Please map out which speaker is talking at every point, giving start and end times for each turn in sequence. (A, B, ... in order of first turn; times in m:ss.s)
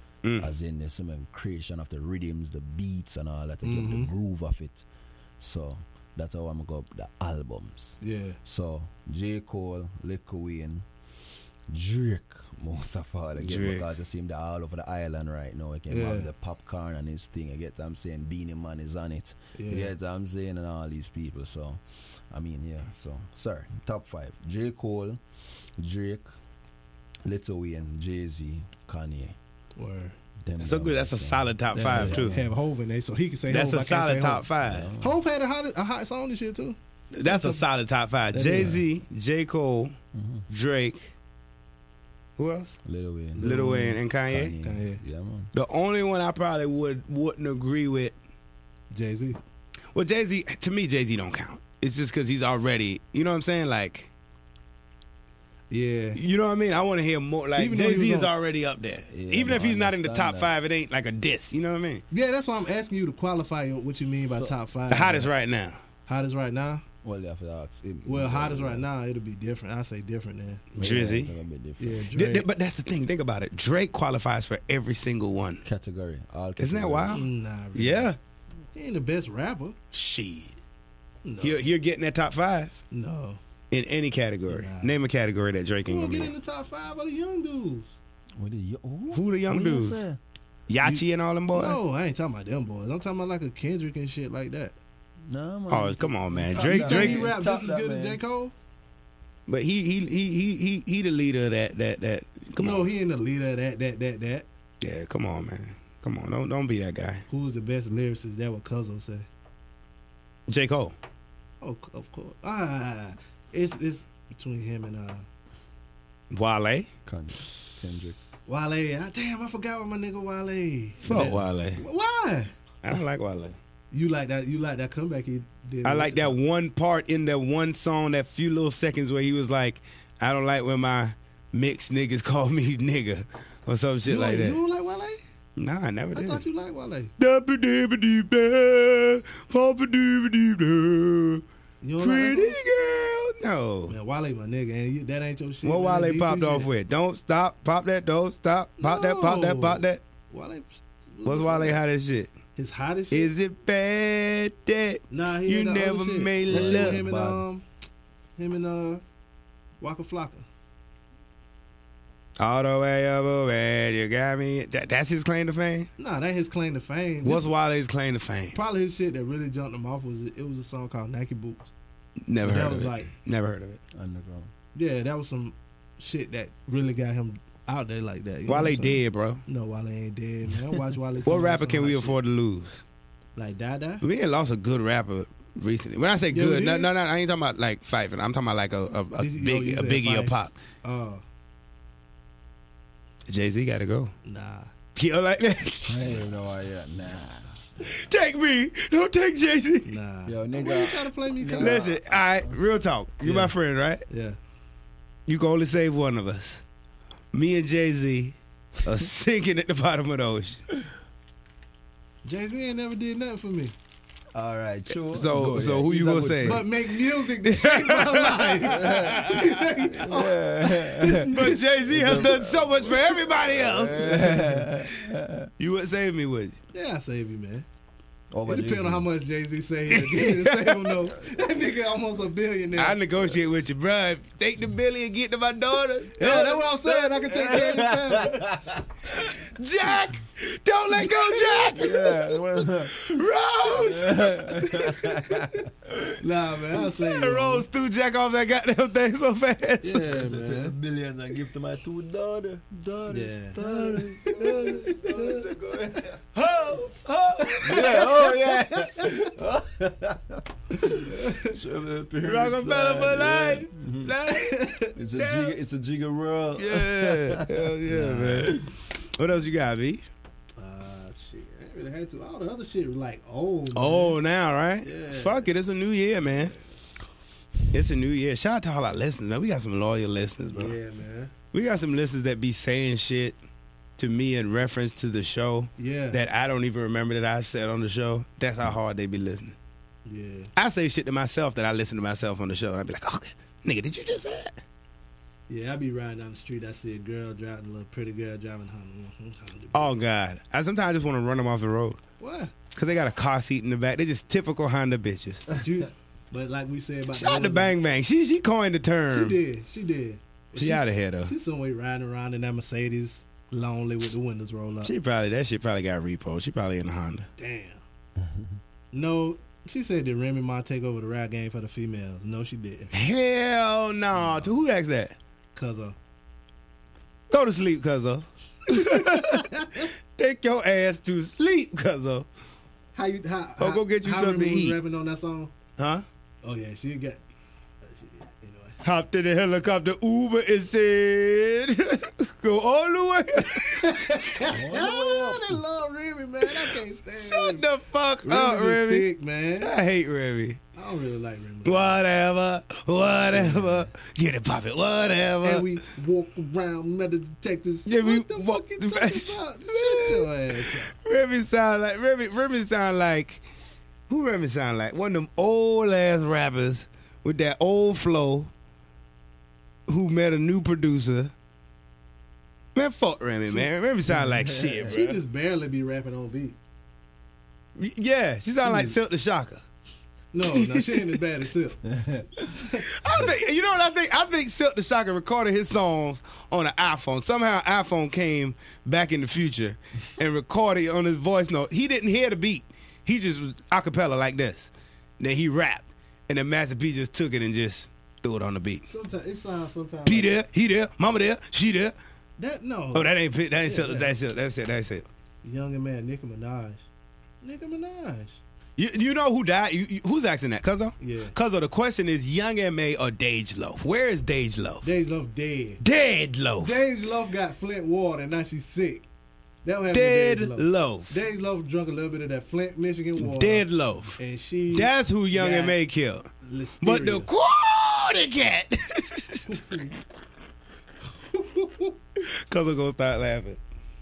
0:00.2-0:00.5 A
0:00.4-0:04.8 B
0:03.6-0:04.1 C
0:05.4-0:10.9 B
0:08.0-0:08.4 C
0:11.7-0:25.2 B
0:13.4-0:13.8 A
0:15.9-0:16.3 C
0:19.6-0:19.9 C
0:25.8-0:26.3 B
0:27.2-0:29.4 B
0:29.8-0:30.2 C
0:30.4-0:32.6 B
0:30.6-0:32.4 A
0:31.7-0:34.5 C
0:33.5-0:34.9 A
0:34.6-0:35.2 B
0:35.0-0:37.6 C
0:37.1-0:40.0 A
0:38.3-0:38.8 C
0:38.4-0:38.8 B
0:40.1-0:40.5 B
0:40.5-0:41.1 A
0:42.4-0:42.8 A
0:42.8-0:45.5 B
0:43.4-0:44.0 C
0:43.4-0:44.6 A
0:44.6-0:45.0 C
0:45.5-0:48.2 A
0:48.9-0:49.4 C
0:49.9-0:54.1 A
0:55.7-0:56.2 C
0:56.2-1:02.0 A
0:57.6-0:58.3 C
0:59.1-1:00.5 B
1:02.1-1:05.3 C
1:04.9-1:05.8 A
1:06.1-1:06.8 C
1:07.0-1:08.9 B
1:08.1-1:11.1 C
1:10.7-1:12.1 B
1:10.8-1:11.3 A
1:11.8-1:12.5 C
1:12.1-1:15.6 A
1:15.6-1:17.2 B
1:16.6-1:18.2 A
1:17.1-1:18.1 C
1:18.7-1:19.8 C
1:19.9-1:20.6 A
1:21.2-1:21.6 C
1:21.4-1:22.8 A
1:22.9-1:23.4 C
1:23.7-1:26.3 A
1:24.5-1:24.9 C
1:25.9-1:28.0 C
1:28.4-1:30.2 B
1:29.1-1:30.0 A
1:30.7-1:31.8 A
1:31.5-1:34.8 C
1:35.3-1:38.2 B
1:35.7-1:37.3 A
1:36.6-1:38.5 C
1:39.5-1:42.9 A
1:42.6-1:44.5 C
1:44.8-1:47.2 A
1:47.3-1:49.3 C
1:50.5-1:51.0 A
1:51.6-1:55.3 C
1:56.3-1:56.9 A
1:57.0-1:58.2 B
1:58.5-2:02.5 C
2:01.0-2:01.8 A
2:02.8-2:03.6 A
2:03.9-2:06.4 C
2:05.8-2:14.6 A
2:14.1-2:15.2 C
2:15.6-2:16.4 A
2:16.1-2:17.1 C
2:17.2-2:21.4 A
2:21.8-2:22.6 C
2:22.0-2:24.0 A
2:23.9-2:26.7 C
2:25.6-2:30.0 A
2:28.8-2:31.8 C
2:31.2-2:32.3 A
2:32.6-2:33.3 C
2:33.1-2:37.0 A
2:35.1-2:37.6 C
2:36.5-2:37.4 B
2:38.4-2:39.0 C
2:39.8-2:40.5 C
2:42.4-2:45.9 A
2:46.0-2:47.5 C
2:47.2-2:48.6 A
2:48.6-2:51.7 C
2:52.3-2:53.8 A
2:52.4-2:53.1 C
2:53.9-2:54.5 B
2:54.8-3:02.2 C
2:58.5-2:59.4 A
3:01.2-3:02.8 A
3:03.4-3:04.0 C
3:04.0-3:10.6 A
3:06.3-3:06.9 C
3:09.2-3:11.2 C
3:13.3-3:14.1 A
3:14.2-3:14.7 C
3:15.0-3:16.2 A
3:15.8-3:17.7 B
3:17.8-3:19.9 A
3:19.9-3:21.9 C
3:20.3-3:22.6 B
3:21.6-3:24.0 A
3:23.2-3:23.5 C
3:24.1-3:24.4 C
3:25.3-3:26.6 A
3:27.3-3:30.6 A
3:32.2-3:33.7 C
3:34.3-3:36.7 B
3:35.1-3:36.7 A
3:36.4-3:42.4 C
3:37.4-3:39.6 A
3:38.6-3:39.4 B
3:39.9-3:45.5 B
3:41.3-3:44.6 A
3:44.0-3:44.5 C
3:45.6-3:46.6 A
3:46.7-3:47.7 C
3:48.3-3:49.0 B
3:48.5-3:53.0 C
3:49.9-3:51.0 A
3:52.8-3:56.7 A
3:56.2-3:58.5 C
3:56.3-3:58.9 B
3:59.2-4:02.2 A
4:01.0-4:02.4 C
4:01.7-4:06.2 B
4:02.9-4:05.4 A
4:06.2-4:07.7 C
4:06.8-4:10.1 A
4:09.8-4:10.8 C
4:10.0-4:16.2 B
4:13.1-4:13.6 C
4:13.6-4:15.5 A
4:14.5-4:15.0 C
4:16.3-4:18.6 A
4:17.4-4:19.3 C
4:17.6-4:24.1 B
4:20.8-4:21.6 C
4:22.2-4:25.5 A
4:24.3-4:25.0 C
4:25.0-4:28.7 B
4:26.6-4:30.1 A
4:27.9-4:28.5 C
4:30.6-4:34.2 C
4:33.7-4:36.6 A
4:34.8-4:35.5 C
4:37.7-4:40.8 A
4:40.5-4:41.3 C
4:41.5-4:43.4 A
4:44.0-4:49.6 A
4:45.8-4:46.2 C
4:50.0-4:50.5 C
4:50.6-4:54.6 A
4:55.5-4:59.9 C
4:59.7-5:02.0 A
5:02.2-5:02.5 C
5:02.7-5:05.5 A
5:05.5-5:07.8 C
5:07.1-5:09.4 A
5:09.1-5:14.9 C
5:10.6-5:11.3 A
5:14.8-5:17.3 A
5:17.4-5:17.8 C
5:18.2-5:18.6 B
5:18.9-5:22.9 C
5:22.9-5:25.2 A
5:24.1-5:24.5 C
5:25.5-5:26.0 C
5:27.3-5:32.3 A
5:28.7-5:29.9 C
5:32.9-5:35.5 C
5:33.6-5:34.8 A
5:35.8-5:36.0 A
5:36.4-5:37.2 C
5:37.8-5:38.8 C
5:38.8-5:44.0 A
5:43.5-5:47.6 C
5:44.5-5:45.6 B
5:46.4-5:49.1 A
5:48.2-5:49.8 C
5:49.6-5:50.6 A
5:50.8-5:52.0 C
5:51.6-5:55.7 A
5:53.2-5:53.9 C
5:55.4-6:00.9 C
5:57.9-6:03.4 A
6:04.1-6:08.5 A
6:09.9-6:11.3 A
6:12.8-6:15.2 A
6:14.2-6:14.9 B
6:14.9-6:16.6 C
6:17.8-6:19.6 A
6:18.6-6:19.0 C
6:20.3-6:21.9 C
6:20.4-6:21.2 A
6:21.9-6:22.5 B
6:22.5-6:22.9 C
6:22.8-6:38.8 A
6:38.8-6:40.3 C
6:40.1-6:42.0 A
6:42.4-6:44.1 C
6:42.9-6:45.0 A
6:45.4-6:46.9 C
6:47.4-6:48.4 C
6:48.8-6:54.8 A
6:51.0-6:51.4 C
6:54.8-6:55.8 C
6:55.8-6:56.8 A
6:56.6-6:59.0 C
6:59.6-7:03.7 C
6:59.9-7:01.2 A
7:03.2-7:04.2 A
7:04.2-7:05.8 C
7:04.7-7:06.3 A
7:06.4-7:07.3 C
7:06.8-7:09.6 A
7:09.5-7:10.0 C
7:11.2-7:12.0 C
7:12.2-7:13.6 A